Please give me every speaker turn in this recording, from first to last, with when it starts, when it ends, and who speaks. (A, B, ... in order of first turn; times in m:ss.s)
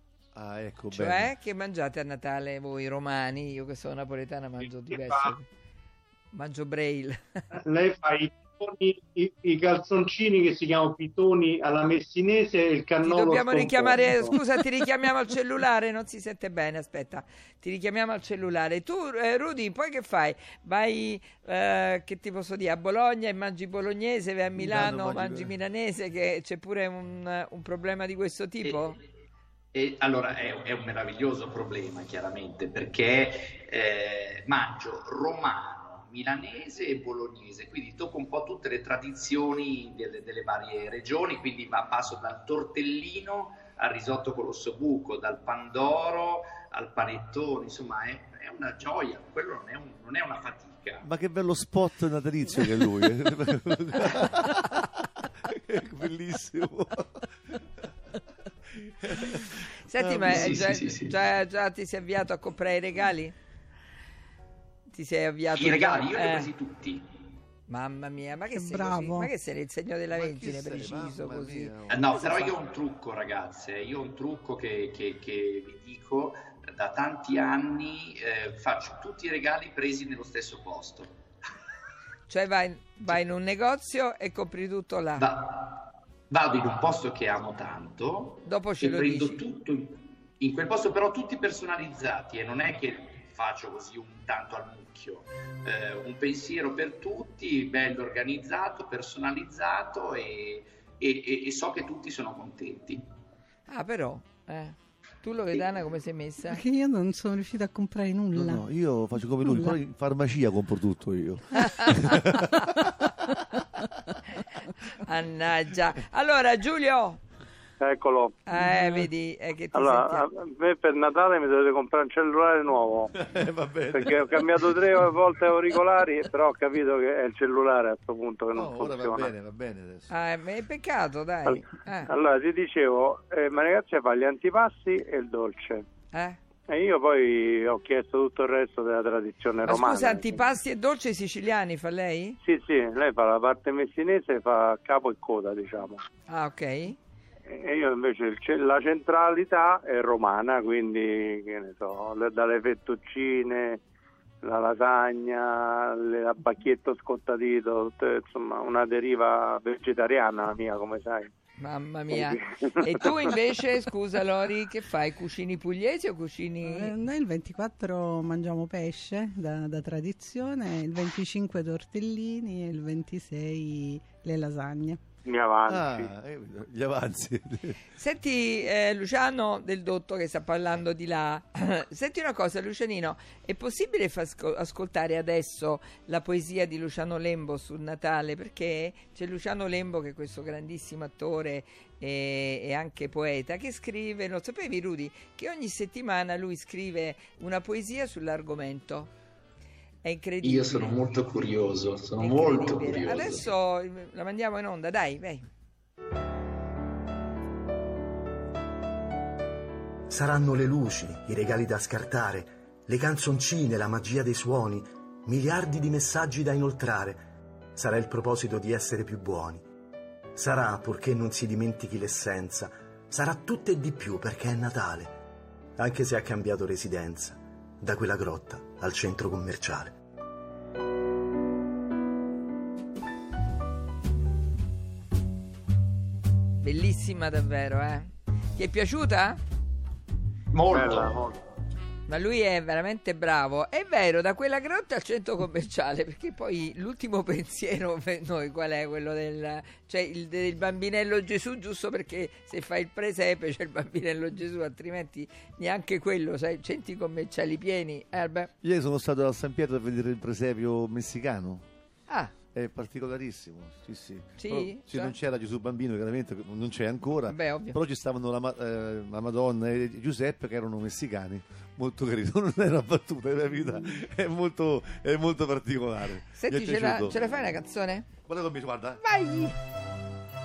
0:00.4-0:01.3 A
0:00.9-0:05.4 B
0:04.6-0:05.4 C
0:06.3-0:07.4 B
0:07.6-0:14.4 C
0:13.0-0:29.0 B
0:24.6-0:25.6 A
0:29.7-0:51.1 D
0:51.0-0:57.8 A
0:58.7-1:00.6 A
0:59.8-1:03.4 B
1:00.3-1:01.1 D
1:04.9-1:06.5 B
1:05.6-1:07.0 D
1:07.7-1:11.7 B
1:08.5-1:09.3 E
1:10.1-1:12.6 A
1:11.9-1:21.1 D
1:22.3-1:25.3 B
1:25.2-1:43.0 D
1:28.5-1:29.4 B
1:43.7-1:46.6 B
1:46.5-1:48.7 E
1:48.3-1:53.3 A
1:49.4-1:49.8 E
1:51.7-1:52.0 B
1:54.4-1:57.2 B
1:57.8-1:58.5 F
1:58.5-2:00.3 B
1:58.6-1:59.1 E
1:59.7-2:03.1 F
2:03.1-2:04.9 A
2:03.9-2:09.3 F
2:08.5-2:10.1 A
2:10.1-2:12.1 B
2:11.4-2:15.8 F
2:16.1-2:16.4 B
2:16.7-2:20.3 F
2:19.6-2:22.4 B
2:22.4-2:26.0 F
2:26.3-2:27.0 B
2:27.5-2:33.8 F
2:34.4-2:41.3 F
2:41.6-2:46.9 B
2:42.1-2:43.6 F
2:46.6-2:55.0 E
2:55.3-2:56.1 F
2:55.7-2:57.8 A
2:58.0-3:19.1 B
3:20.0-3:21.0 B
3:20.4-3:23.5 D
3:22.2-3:25.5 B
3:30.1-3:37.2 G
3:37.8-3:39.6 G
3:40.4-3:45.2 G
3:45.8-3:50.0 G
3:56.6-3:59.4 B
4:00.5-4:01.2 D
4:00.7-4:01.4 F
4:02.1-4:18.5 B
4:18.6-4:21.6 A
4:22.1-4:22.3 B
4:22.5-4:37.2 A
4:24.4-4:25.2 B
4:27.3-4:27.8 B
4:36.4-4:38.1 B
4:38.3-4:39.0 A
4:39.0-4:39.6 B